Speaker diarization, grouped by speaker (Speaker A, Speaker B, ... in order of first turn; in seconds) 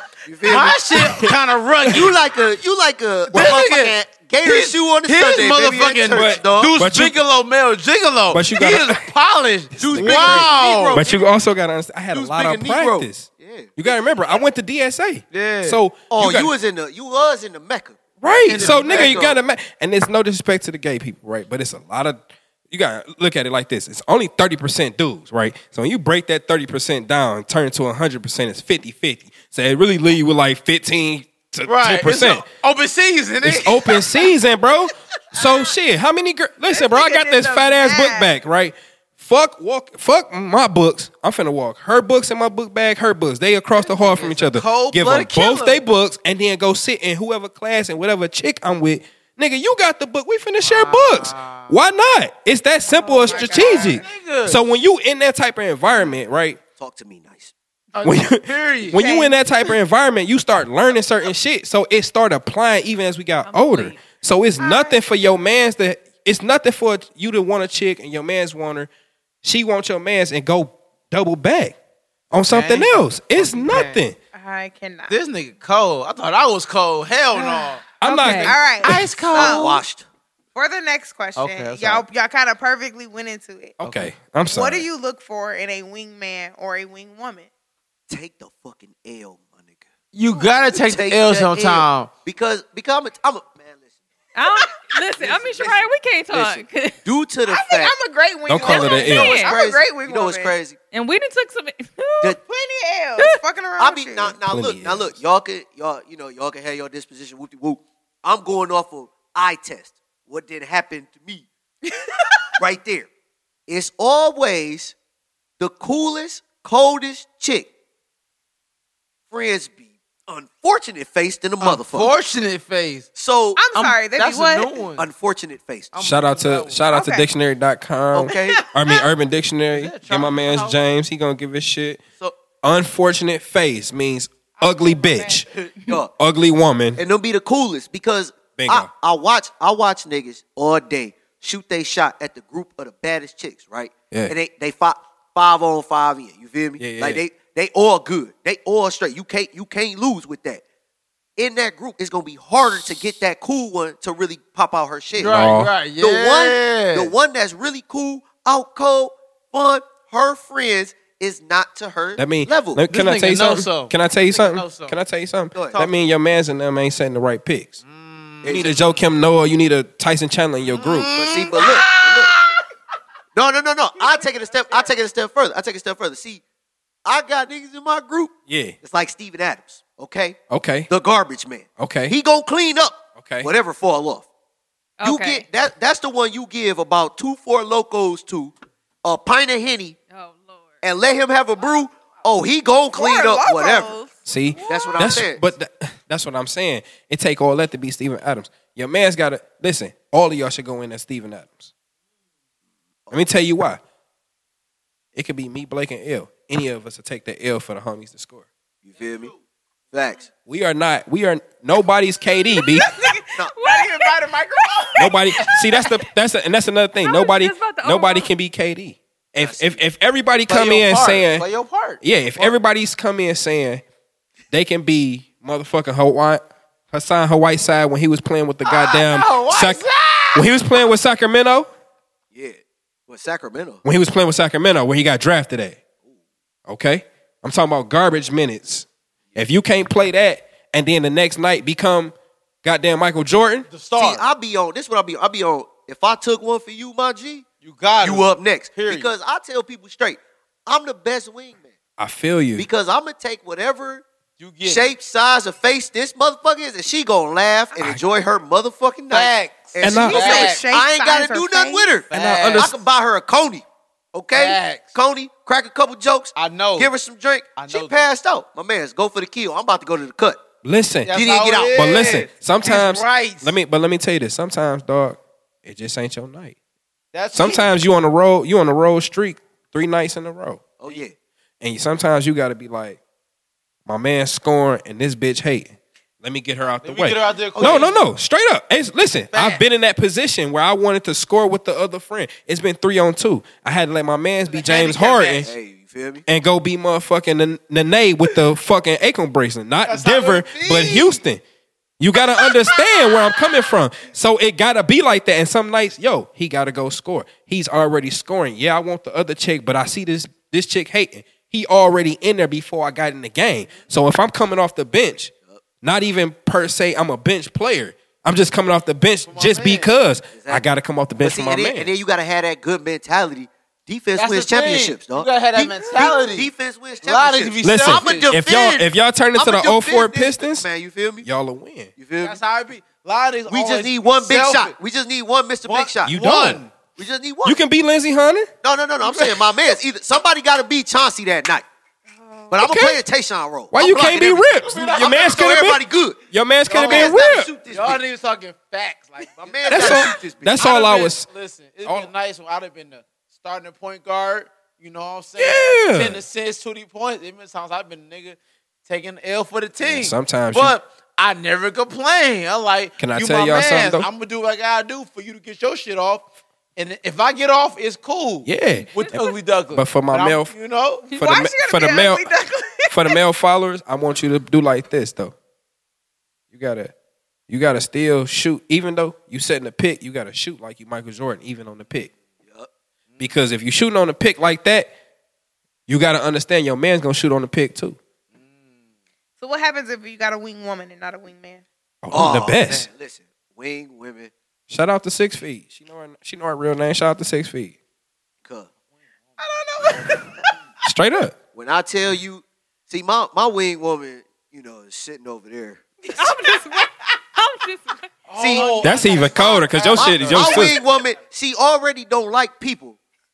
Speaker A: 0.3-1.2, 1.9-6.8, 9.9-11.2, 12.1-13.7, 16.1-19.4, 56.8-57.5, 79.3-80.1, 88.1-89.8, 90.7-93.9, 95.2-97.9, 98.7-100.8, 103.8-111.5, 112.6-113.1, 113.7-115.0, 115.6-117.7, 119.3-122.1, 123.2-123.7, 125.0-126.0, 128.1-128.6, 135.5-136.1, 137.0-150.6, 151.4-162.8, 168.4-168.8, 171.1-172.3, 173.3-176.4, 177.1-180.4, 180.9-184.3, 185.0-188.5, 189.0-190.0, 190.8-194.0, 194.7-195.4, 208.8-209.4, 209.9-210.3, 219.4-219.8, 232.3-233.8, 244.0-247.5, 248.0-251.7, 252.6-254.1, 254.6-270.4, 271.1-271.9, 280.8-281.1, 287.6-288.0, 295.4-296.2, 320.3-320.6, 321.2-331.3, 332.0-332.4, 333.5-336.2, 337.0-337.6, 338.6-341.6, 342.5-348.0, 349.4-350.8, 392.1-394.3, 401.5-405.9, 408.4-413.0
Speaker B: 0.5-2.1, 3.3-11.1, 15.3-15.8, 18.5-19.3, 31.7-34.2, 43.8-45.8, 50.6-51.8, 53.3-54.6, 57.9-59.0, 72.3-74.0, 75.1-78.0, 78.8-79.8, 81.4-82.0, 83.8-84.1, 90.1-92.1, 121.6-123.1, 123.7-125.1, 125.9-126.9, 129.7-130.8, 155.2-157.1, 162.9-165.0, 167.8-169.0, 170.8-172.7, 220.5-222.0, 228.7-230.5, 243.7-244.2, 247.6-249.1, 254.4-254.9, 259.1-260.7, 262.1-262.7, 264.3-265.0, 266.4-266.9, 267.6-268.1, 271.1-273.5, 277.1-277.7, 286.8-288.0, 289.3-289.6, 294.5-295.5, 299.9-301.2, 319.3-319.9, 324.2-328.4, 332.2-334.8, 335.6-336.8, 339.1-339.6, 344.6-345.6, 346.7-371.1, 388.3-388.8, 408.3-410.8
Speaker C: 3.3-3.6, 6.1-7.2, 8.3-9.1, 9.8-16.5, 18.2-32.4, 33.4-56.6, 58.0-68.9, 69.4-71.8, 72.3-74.2, 78.0-79.1, 83.8-84.8, 98.5-99.4, 104.5-105.2, 126.0-132.0, 132.6-135.5, 136.2-137.0, 138.6-138.9, 146.8-147.2, 155.2-155.7, 162.2-167.8, 168.5-171.1, 178.5-178.8, 180.5-180.9, 181.8-182.2, 183.2-183.5, 194.3-201.7, 203.1-203.8, 205.1-208.5, 210.5-212.9, 215.0-221.4, 222.0-223.8, 224.5-231.7, 233.8-235.8, 236.7-243.7, 252.0-252.7, 257.8-258.0, 259.8-260.5, 262.1-262.7, 270.6-271.2, 271.7-276.6, 277.3-280.6, 281.6-283.0, 283.9-295.5, 296.3-301.4, 302.0-321.9, 325.6-326.1, 327.6-330.7, 331.2-331.9, 336.1-336.6, 337.4-338.5, 342.5-343.0, 343.7-347.5, 349.7-351.3, 351.8-352.1, 355.4-356.2, 359.8-360.8, 363.0-364.1, 368.4-370.6, 371.1-372.3, 372.9-375.4, 376.5-376.9, 377.5-382.1, 383.2-384.9, 385.9-388.0, 392.0-392.9, 394.7-397.8, 400.8-401.4, 408.8-410.8
Speaker D: 36.7-38.4, 53.3-53.9, 58.9-59.7, 64.6-65.0, 74.3-75.2, 77.4-77.7, 78.4-79.8, 80.5-83.8, 84.5-87.5, 97.5-100.5, 102.4-104.4, 111.9-112.5, 123.6-124.9, 126.9-127.2, 128.3-129.0, 134.6-135.4, 192.9-194.2, 212.6-215.1, 259.9-261.9, 371.1-373.2, 389.4-391.6, 399.4-400.4, 406.1-407.2, 409.2-410.7
Speaker E: 52.9-54.0, 63.4-64.0, 78.0-78.5, 94.3-97.0, 98.7-99.5, 100.9-102.4, 185.0-185.4, 190.1-190.8, 194.5-195.0, 213.6-214.1, 217.0-218.3, 368.7-369.4, 406.1-408.1